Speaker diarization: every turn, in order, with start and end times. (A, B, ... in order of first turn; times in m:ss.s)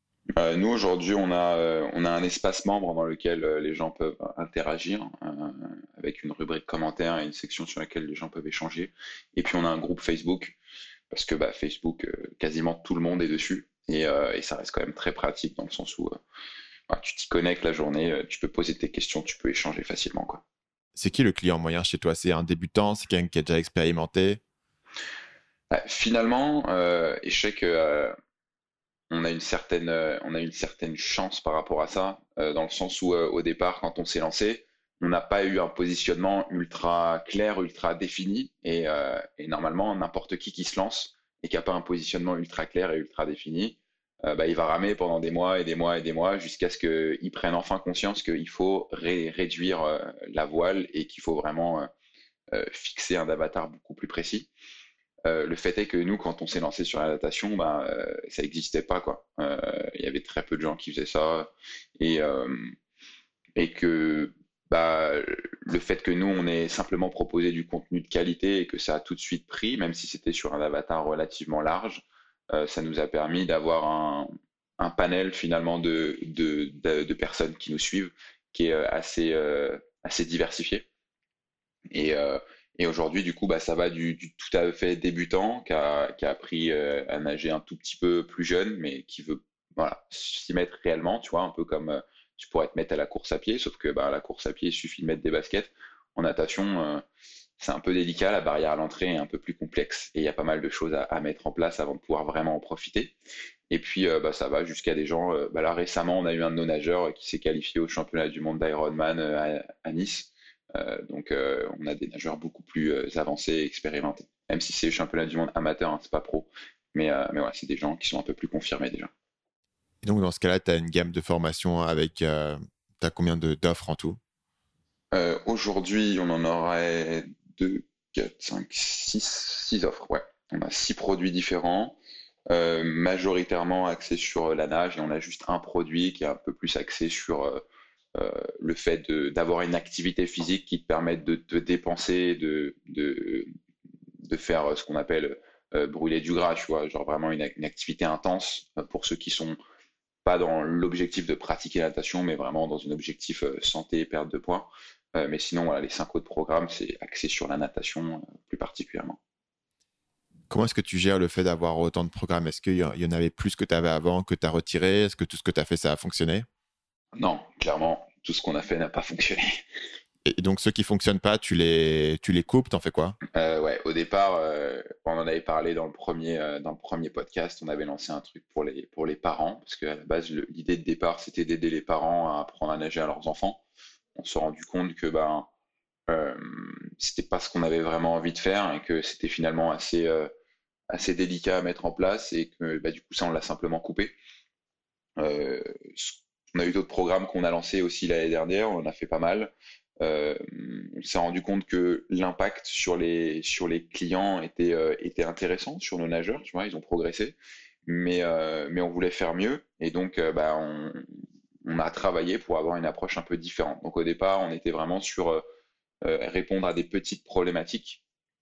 0:00.4-0:10.6 A
0:11.1-0:16.2 A
0:16.9-0:20.4 A
0:20.9-0:24.4 B
0:25.7-0:28.1 A
0:29.1-0:51.9 A
0:52.5-0:54.5 A
0:55.2-1:02.8 A
1:03.6-1:20.8 A
1:21.9-1:37.0 A
1:37.6-1:43.1 A
1:43.7-1:59.1 A
2:00.0-2:04.2 B
2:05.1-2:12.0 A
2:12.5-2:17.6 A
2:18.2-2:23.5 A
2:24.2-2:29.6 A
2:30.2-2:39.2 A
2:40.5-2:46.4 B
2:47.2-2:49.6 A
2:50.2-2:53.2 B
2:53.3-3:03.6 A
3:04.2-3:05.5 A
3:06.1-3:10.3 A
3:10.9-3:14.1 A
3:15.2-3:31.0 A
3:31.6-3:35.4 A
3:36.0-3:38.0 A